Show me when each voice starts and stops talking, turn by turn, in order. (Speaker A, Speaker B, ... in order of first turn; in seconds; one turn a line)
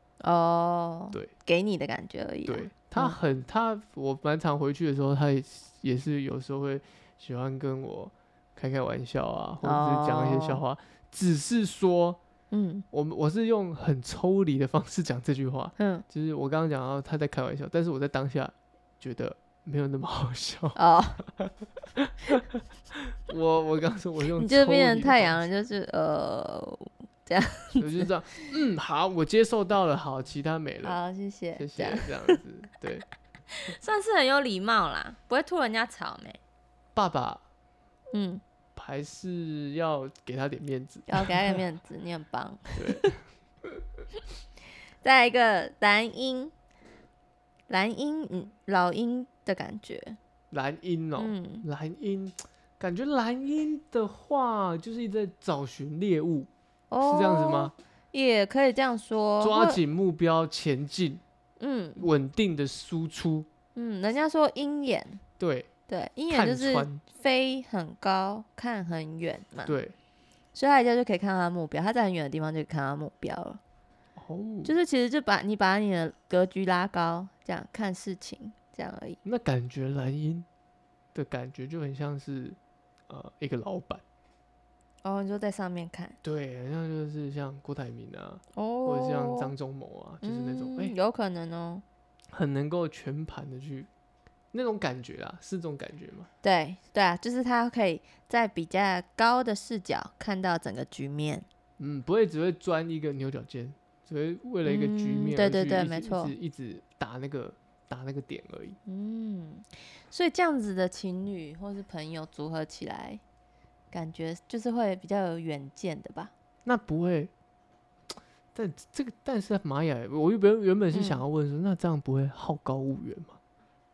Speaker A: 0.2-3.2
Speaker B: 2.5-12.2
Speaker A: 9.6-10.6
Speaker A: 12.5-12.8
Speaker B: 12.9-20.8
Speaker A: 15.8-16.0
Speaker A: 20.8-21.2
Speaker B: 21.4-25.4
Speaker A: 24.4-28.1
Speaker B: 27.8-31.0
Speaker A: 30.8-32.4
Speaker B: 31.5-33.0
Speaker A: 33.5-36.4
Speaker B: 36.9-37.4
Speaker A: 38.1-38.4
Speaker B: 38.8-41.6
Speaker A: 41.1-43.1
Speaker B: 42.8-43.2
Speaker A: 45.0-46.5
Speaker A: 47.7-50.2
Speaker B: 50.5-56.5
Speaker A: 51.2-51.6
Speaker A: 56.9-59.8
Speaker B: 57.0-57.7
Speaker B: 59.4-61.2
Speaker A: 61.6-62.0
Speaker B: 62.0-63.5
Speaker A: 63.7-65.2
Speaker B: 65.4-65.7
Speaker A: 65.9-69.8
Speaker B: 66.3-67.0
Speaker B: 69.7-69.9
Speaker A: 70.5-73.6
Speaker B: 74.2-74.7
Speaker A: 74.6-79.2
Speaker B: 79.2-80.5
Speaker B: 81.1-82.6
Speaker B: 83.1-84.0
Speaker A: 85.0-86.2
Speaker B: 86.2-90.9
Speaker A: 88.5-89.5
Speaker A: 90.2-91.8
Speaker B: 92.3-93.9
Speaker B: 94.5-96.3
Speaker A: 96.4-101.5
Speaker B: 101.8-108.8
Speaker A: 104.6-106.3
Speaker A: 108.8-113.2
Speaker A: 113.9-116.3
Speaker B: 116.6-117.3
Speaker B: 118.5-123.4
Speaker A: 120.9-121.2